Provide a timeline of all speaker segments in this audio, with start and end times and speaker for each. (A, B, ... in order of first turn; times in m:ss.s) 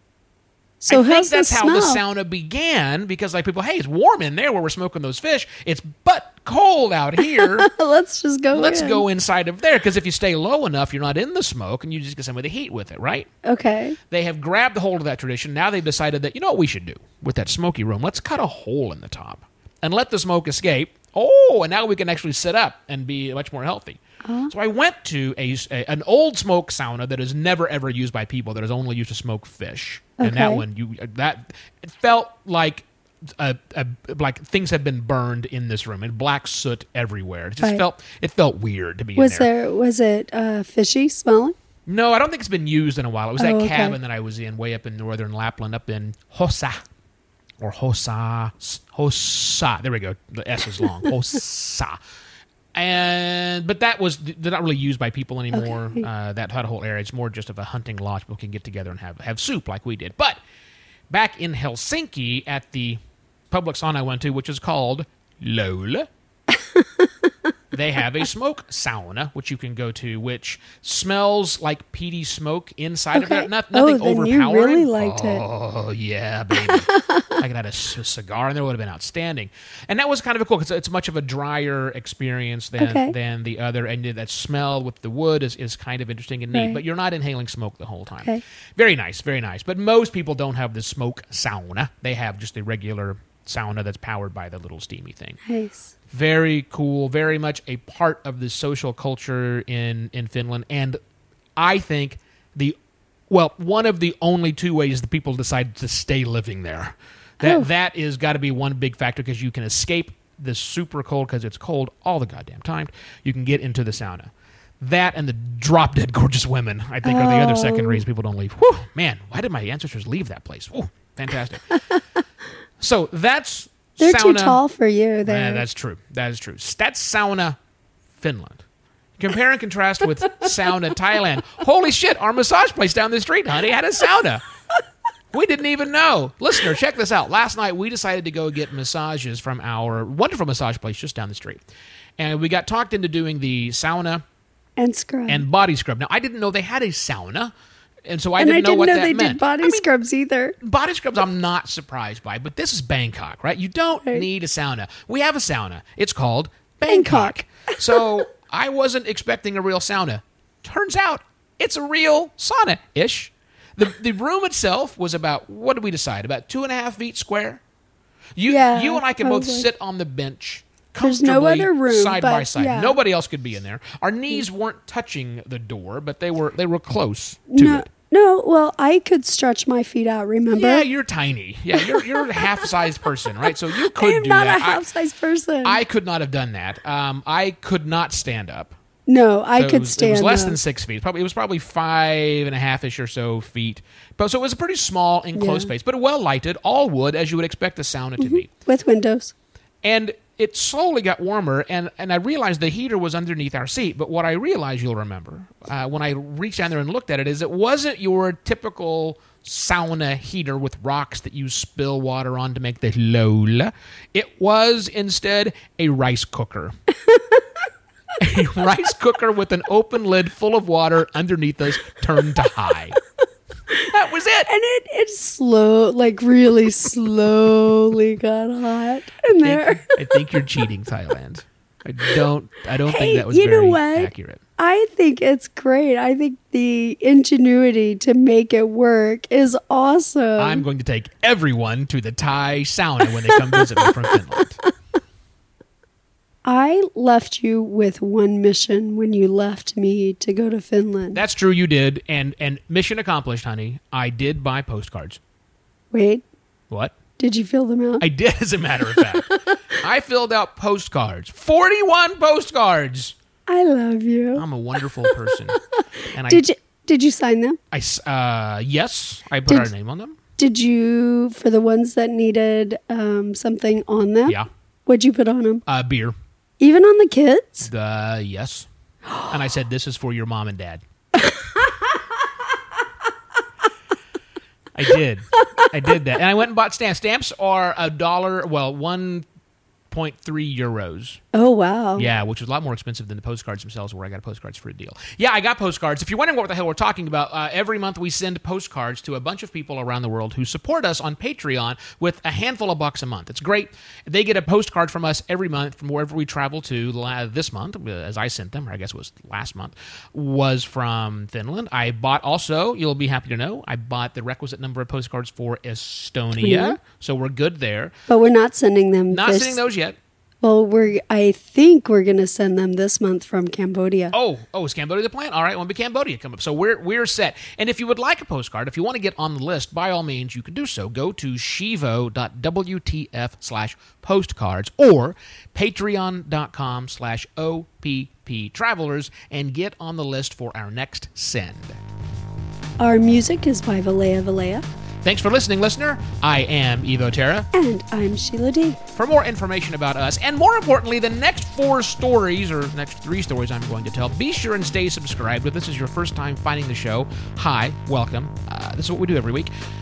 0:00.8-0:02.0 A
0:00.9-0:07.7 B
0:07.2-0:09.0 A
0:08.5-0:13.3 B
0:13.4-0:14.0 A
0:14.1-0:39.5 B
0:24.2-0:24.5 A
0:30.2-0:30.6 A
0:39.2-0:41.6 A
0:41.9-0:46.8 B
0:43.4-0:44.0 A
0:47.6-0:52.0 B
0:52.7-1:00.4 B
0:55.5-0:56.1 A
1:01.1-1:06.1 B
1:06.6-1:07.1 A
1:07.7-1:35.4 B
1:13.1-1:15.4 A
1:16.6-1:17.3 A
1:22.8-1:23.1 A
1:26.5-1:26.8 A
1:35.4-1:35.9 A
1:36.1-1:41.0 B
1:41.6-1:42.8 B
1:43.3-2:01.7 B
1:47.4-1:47.7 A
1:57.0-1:58.0 A
2:02.8-2:04.6 B
2:04.0-2:05.6 A
2:05.2-2:07.6 B
2:08.2-2:08.6 B
2:09.2-2:14.4 B
2:15.3-2:21.6 B
2:22.2-2:24.2 B
2:24.8-2:25.4 A
2:25.3-2:27.5 B
2:28.1-2:29.8 B
2:28.4-2:30.6 A
2:30.6-2:47.6 B
2:36.9-2:37.4 A
2:48.4-2:57.9 B
2:48.5-2:49.7 A
2:51.0-2:53.0 A
2:57.5-3:00.9 A
3:00.5-3:04.8 B
3:01.8-3:02.5 A
3:03.7-3:05.8 A
3:05.6-3:08.7 B
3:09.1-3:10.6 A
3:09.6-3:18.5 B
3:15.4-3:15.7 A
3:18.2-3:19.3 A
3:19.8-3:36.7 B
3:37.1-3:37.4 A
3:38.2-3:43.0 B
3:43.9-3:44.5 B
3:44.5-3:50.0 A
3:49.3-3:54.4 B
3:52.8-4:00.6 A
4:00.4-4:04.6 B
4:06.4-4:11.2 A
4:11.1-4:15.2 B
4:15.9-4:16.2 A
4:16.7-4:17.0 B
4:17.2-4:18.0 A
4:18.0-4:23.2 B
4:23.5-4:24.4 A
4:24.4-4:25.6 B
4:26.1-4:26.4 B
4:26.2-4:27.6 A
4:27.7-4:30.2 B
4:30.4-4:35.6 A
4:35.7-4:36.2 B
4:36.6-4:37.7 A
4:37.6-4:38.7 B
4:39.3-4:40.8 B
4:41.2-4:42.0 A
4:44.7-4:49.3 B
4:49.9-4:51.2 B
4:51.3-4:52.1 A
4:52.0-5:18.0 B
5:16.4-5:16.8 A
5:18.1-5:19.6 A
5:19.1-5:20.0 B
5:20.4-5:24.2 A
5:24.1-5:41.8 B
5:42.8-5:44.7 A
5:45.0-5:47.5 B
5:47.5-5:48.8 A
5:48.9-5:59.5 B